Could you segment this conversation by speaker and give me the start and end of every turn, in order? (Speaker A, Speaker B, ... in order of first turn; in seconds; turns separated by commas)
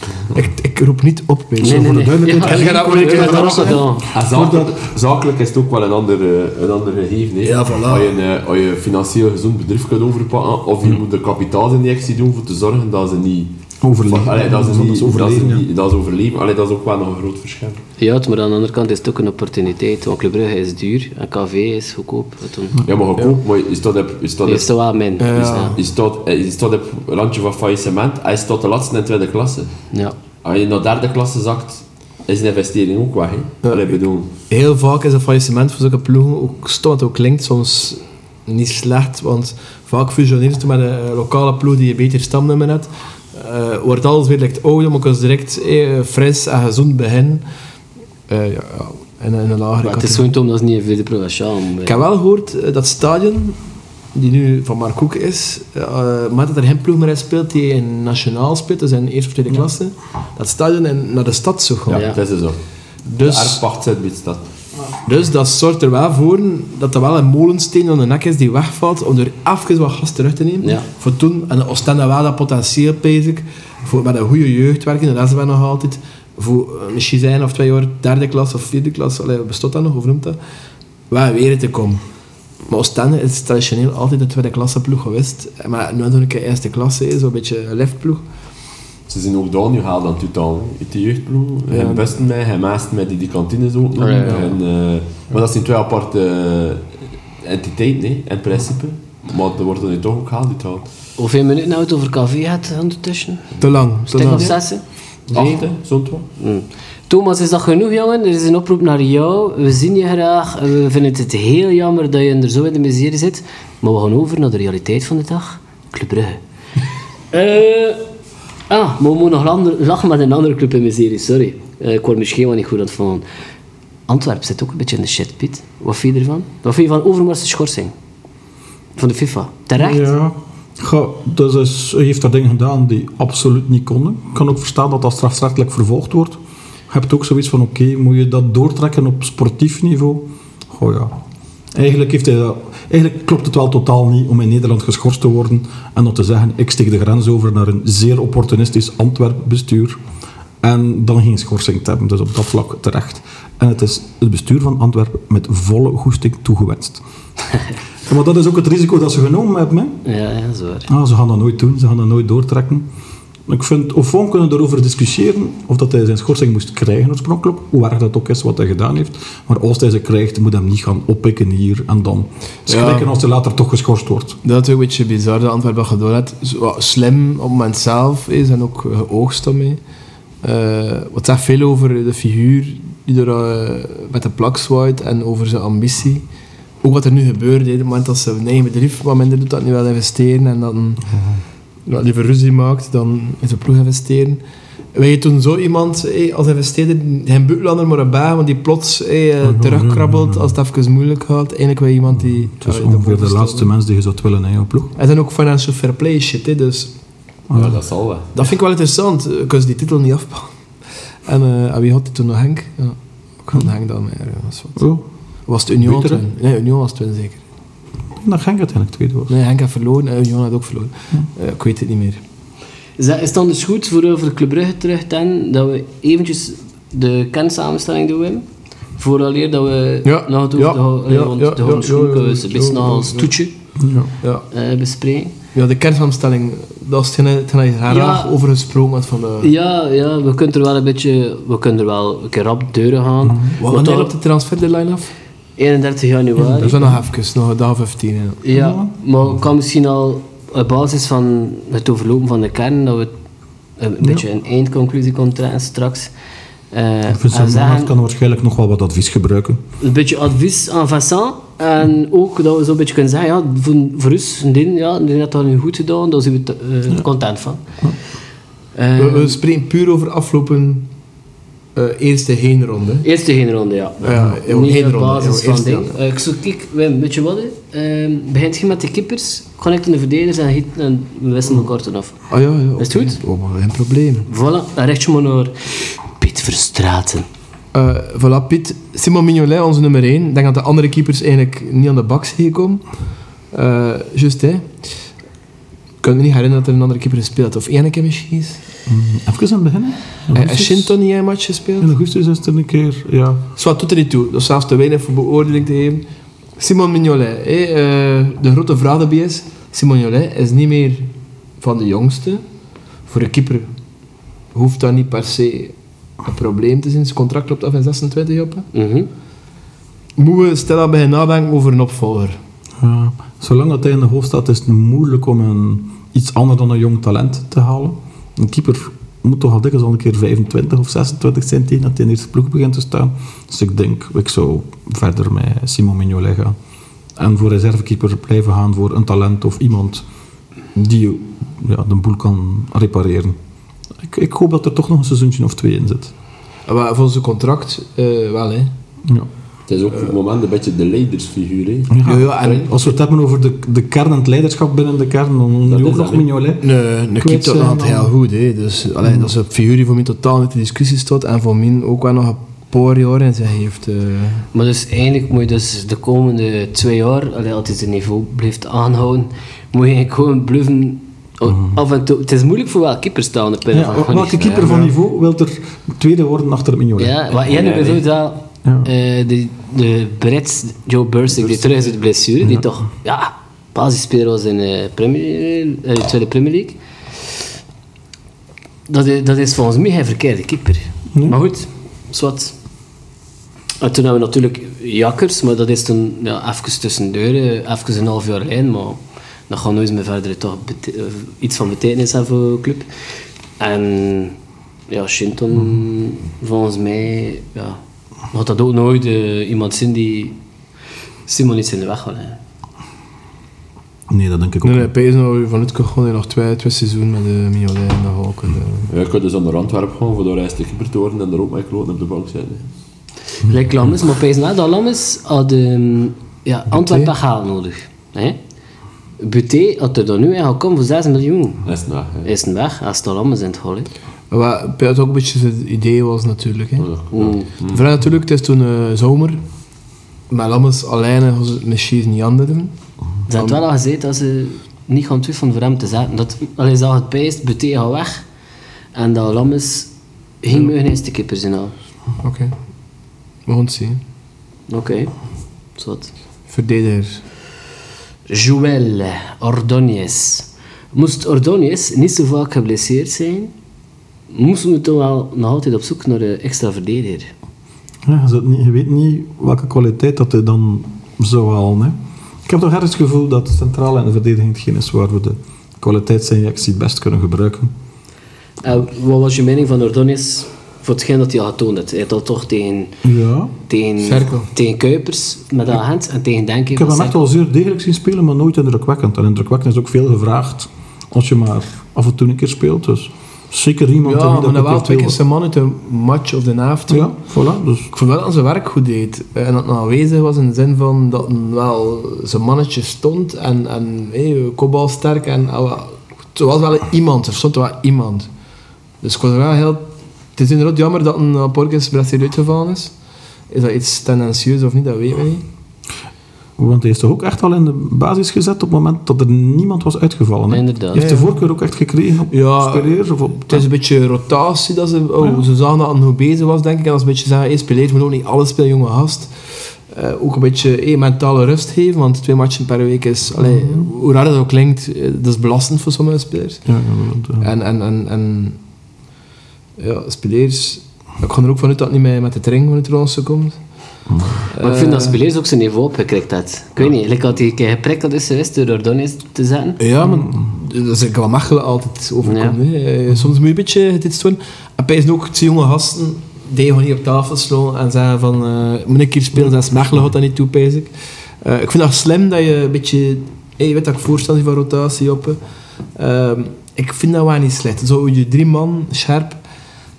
Speaker A: 0.3-3.9, Speaker B: 1.6-4.1, Speaker C: 1.6-4.7, Speaker D: 4.1-13.5, Speaker A: 7.4-8.1, Speaker C: 13.8-15.6, Speaker D: 14.0-17.8, Speaker B: 18.0-22.8, Speaker D: 22.8-24.7, Speaker B: 24.4-25.7, Speaker A: 25.2-25.8, Speaker D: 25.4-29.9, Speaker D: 30.4-34.3, Speaker A: 33.6-47.4, Speaker A: 48.3-50.3, Speaker B: 49.8-52.0, Speaker A: 51.8-53.6, Speaker A: 54.1-62.0, Speaker D: 61.9-62.6, Speaker B: 61.9-62.2, Speaker A: 63.0-63.6, Speaker D: 63.2-64.5, Speaker A: 65.0-80.4, Speaker A: 81.1-82.0, Speaker A: 82.7-88.2, Speaker D: 89.1-100.8, Speaker A: 91.7-92.1, Speaker B: 94.0-94.5, Speaker B: 101.2-103.5, Speaker A: 103.6-104.6, Speaker B: 104.1-105.6, Speaker D: 105.3-106.2, Speaker B: 106.4-116.4, Speaker B: 117.3-118.0, Speaker B: 118.7-123.2, Speaker B: 124.1-127.9, Speaker B: 128.9-130.1, Speaker C: 129.8-136.4, Speaker C: 136.9-141.1, Speaker C: 141.7-150.0, Speaker C: 150.6-157.0, Speaker C: 158.1-160.0, Speaker B: 160.1-160.9, Speaker C: 160.9-162.8, Speaker C: 163.5-174.4, Speaker A: 172.7-173.1, Speaker A: 174.4-179.8, Speaker A: 180.4-186.2, Speaker A: 186.8-191.1, Speaker C: 191.1-191.4, Speaker A: 191.8-194.4, Speaker A: 194.9-203.7, Speaker C: 199.4-200.5, Speaker C: 202.2-204.9, Speaker A: 204.9-206.9, Speaker C: 207.5-207.8, Speaker D: 207.5-208.3, Speaker A: 208.3-210.5, Speaker A: 211.2-214.8, Speaker C: 214.8-215.1, Speaker A: 215.5-217.4, Speaker C: 215.8-216.2, Speaker C: 218.2-219.3, Speaker A: 219.3-222.2, Speaker B: 223.0-228.4, Speaker B: 229.0-233.5, Speaker A: 230.0-233.3, Speaker C: 233.8-234.1, Speaker B: 234.5-235.3, Speaker A: 235.5-239.5, Speaker B: 237.9-238.3, Speaker B: 239.4-244.1, Speaker C: 243.2-243.5, Speaker A: 243.6-245.1, Speaker B: 245.6-246.8, Speaker C: 246.4-247.0, Speaker A: 246.6-248.4, Speaker B: 248.4-253.1, Speaker C: 248.5-248.9, Speaker B: 253.8-256.1, Speaker B: 256.7-257.9, Speaker C: 257.1-259.6, Speaker B: 259.8-267.6, Speaker B: 268.7-269.4, Speaker A: 268.9-270.9, Speaker A: 271.8-273.1, Speaker B: 273.0-282.3, Speaker A: 274.0-275.9, Speaker A: 282.3-284.3, Speaker B: 282.8-283.2, Speaker B: 284.3-287.3, Speaker A: 287.7-292.8, Speaker A: 293.5-294.7, Speaker A: 296.0-298.6, Speaker C: 298.9-300.9, Speaker A: 300.3-301.9, Speaker C: 301.8-303.4, Speaker A: 303.6-306.0, Speaker A: 306.6-311.1, Speaker A: 311.6-312.4, Speaker A: 313.1-313.7, Speaker A: 314.5-318.7, Speaker B: 318.7-319.1, Speaker A: 320.2-322.4, Speaker C: 322.8-336.6, Speaker C: 337.1-340.0, Speaker C: 340.7-343.4, Speaker C: 344.0-346.1, Speaker A: 346.7-348.7, Speaker D: 349.7-352.7, Speaker C: 351.9-358.1, Speaker A: 352.0-352.7, Speaker D: 355.6-356.2, Speaker A: 356.6-364.5, Speaker C: 359.0-359.3, Speaker B: 364.5-374.8, Speaker C: 371.4-371.8, Speaker C: 373.7-377.2, Speaker B: 377.0-386.8, Speaker D: 377.3-378.0, Speaker C: 378.6-378.9, Speaker B: 388.9-392.5, Speaker B: 393.8-402.9, Speaker B: 403.6-404.3, Speaker B: 404.9-407.8, Speaker B: 408.3-410.4, Speaker B: 411.3-412.4, Speaker C: 414.1-414.9, Speaker A: 414.6-418.9, Speaker D: 418.9-422.6, Speaker B: 423.4-428.4, Speaker A: 426.7-427.1, Speaker B: 429.2-431.6, Speaker D: 431.6-432.3, Speaker B: 432.2-433.9, Speaker A: 434.3-436.9, Speaker D: 436.8-437.8, Speaker B: 437.1-437.5, Speaker A: 437.7-439.4, Speaker A: 440.3-442.7, Speaker B: 443.3-448.2, Speaker A: 443.3-443.6, Speaker B: 448.9-449.9, Speaker B: 450.4-451.7, Speaker A: 452.2-452.5, Speaker A: 453.4-454.0, Speaker B: 454.7-455.1, Speaker B: 455.8-456.1, Speaker A: 456.5-457.2, Speaker B: 458.3-463.5, Speaker B: 464.3-467.3, Speaker C: 468.0-477.7, Speaker B: 478.6-482.9, Speaker C: 483.0-483.5, Speaker B: 483.7-487.2, Speaker A: 484.0-484.5, Speaker C: 486.7-495.2, Speaker A: 494.0-497.1, Speaker C: 496.9-497.9, Speaker A: 497.9-508.3, Speaker A: 509.0-512.9, Speaker A: 513.5-515.4, Speaker C: 516.6-523.6, Speaker B: 520.5-521.0, Speaker A: 520.9-521.3, Speaker A: 522.3-536.6, Speaker C: 525.2-525.5, Speaker C: 533.4-533.9, Speaker C: 536.6-537.5, Speaker A: 537.4-538.6, Speaker A: 539.8-543.6, Speaker C: 544.1-544.4, Speaker A: 544.5-545.2, Speaker B: 544.5-549.8, Speaker A: 549.8-565.4, Speaker C: 550.0-550.5, Speaker B: 552.2-552.6, Speaker A: 565.9-569.4